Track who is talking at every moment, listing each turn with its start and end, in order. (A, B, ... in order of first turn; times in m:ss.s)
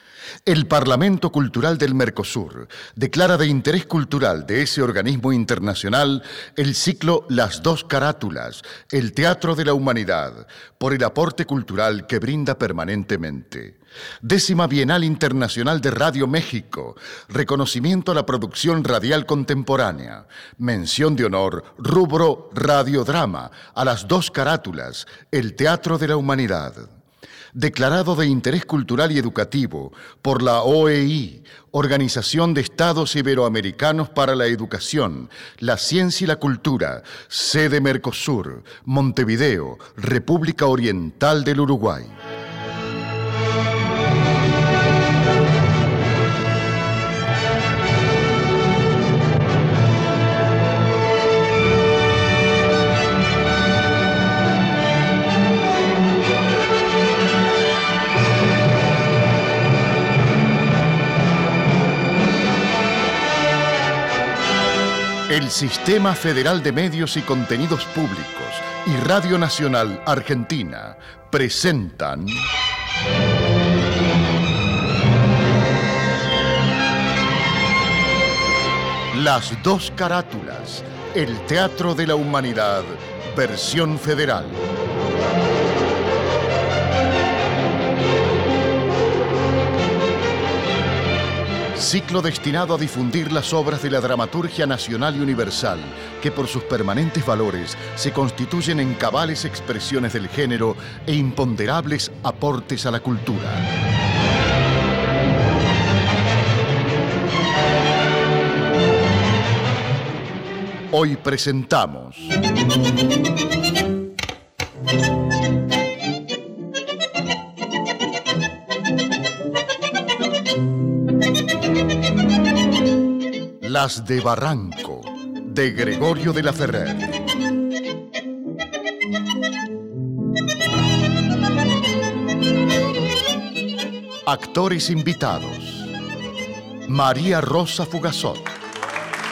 0:00.4-0:26.9 A
0:27.5-0:42.2 A
1:05.3-1:12.5 A
1:19.1-1:24.6 A
1:31.7-1:43.7 A
1:50.9-1:52.3 A
2:03.6-2:07.1 A
2:14.2-2:15.9 A
2:16.9-2:18.5 A